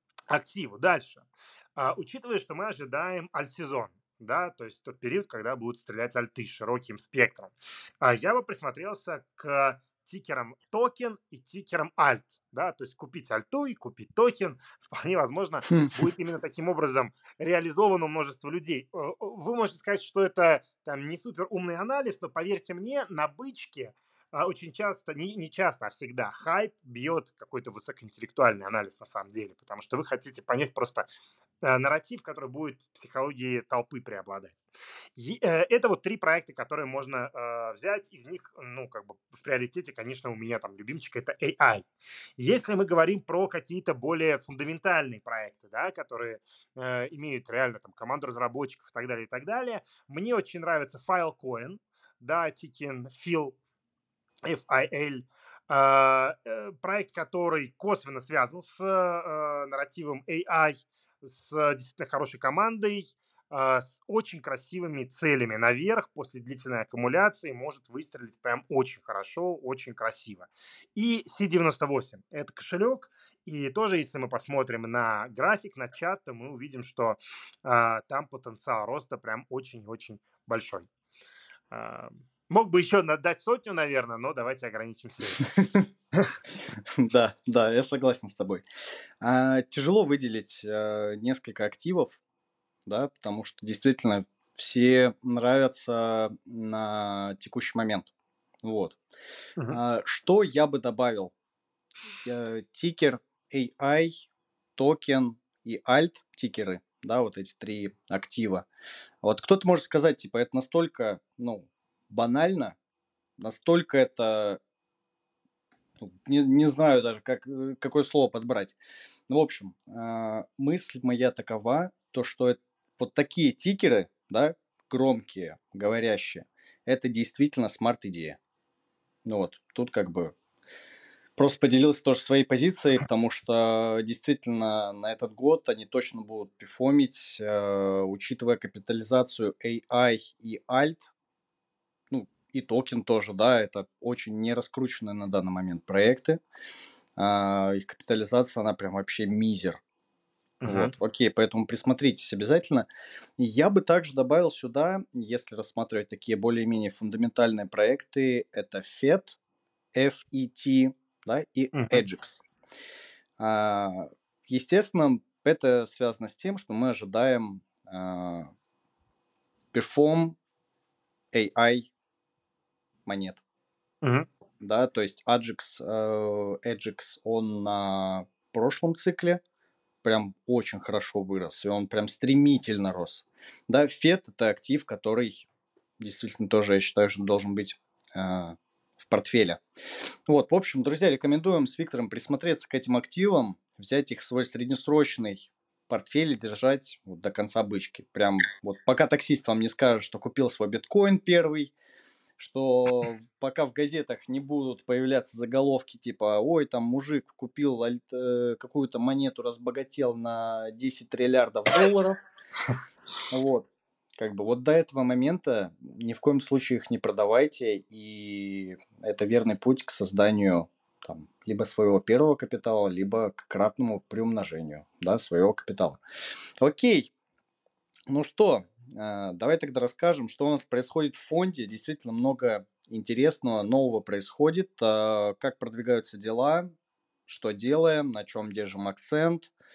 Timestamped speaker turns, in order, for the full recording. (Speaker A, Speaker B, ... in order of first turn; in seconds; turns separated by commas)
Speaker A: 0.3-31.1, Speaker B: 15.7-16.0, Speaker A: 31.6-34.6, Speaker A: 35.1-41.9, Speaker A: 42.4-53.5, Speaker A: 54.4-80.9, Speaker A: 81.7-85.6, Speaker B: 86.7-88.6, Speaker B: 89.2-92.2, Speaker B: 92.8-98.1, Speaker B: 98.6-99.0, Speaker B: 99.7-101.3, Speaker B: 102.2-108.7, Speaker B: 109.2-112.7, Speaker B: 113.4-114.6, Speaker B: 116.0-118.8, Speaker B: 119.3-128.4, Speaker B: 129.2-130.3, Speaker B: 131.4-141.1, Speaker B: 142.1-146.4, Speaker B: 147.2-149.8, Speaker A: 150.6-150.9, Speaker B: 150.7-152.9, Speaker B: 153.4-159.4, Speaker B: 159.9-162.4, Speaker A: 161.7-162.0, Speaker B: 163.4-168.5, Speaker B: 169.7-170.3, Speaker B: 171.3-171.9, Speaker B: 173.1-173.4, Speaker A: 174.0-174.3, Speaker B: 174.6-179.4, Speaker B: 180.0-185.4, Speaker B: 186.0-201.7, Speaker B: 202.4-212.2, Speaker B: 213.3-226.0, Speaker B: 226.6-227.1, Speaker B: 228.1-236.7, Speaker B: 237.3-239.5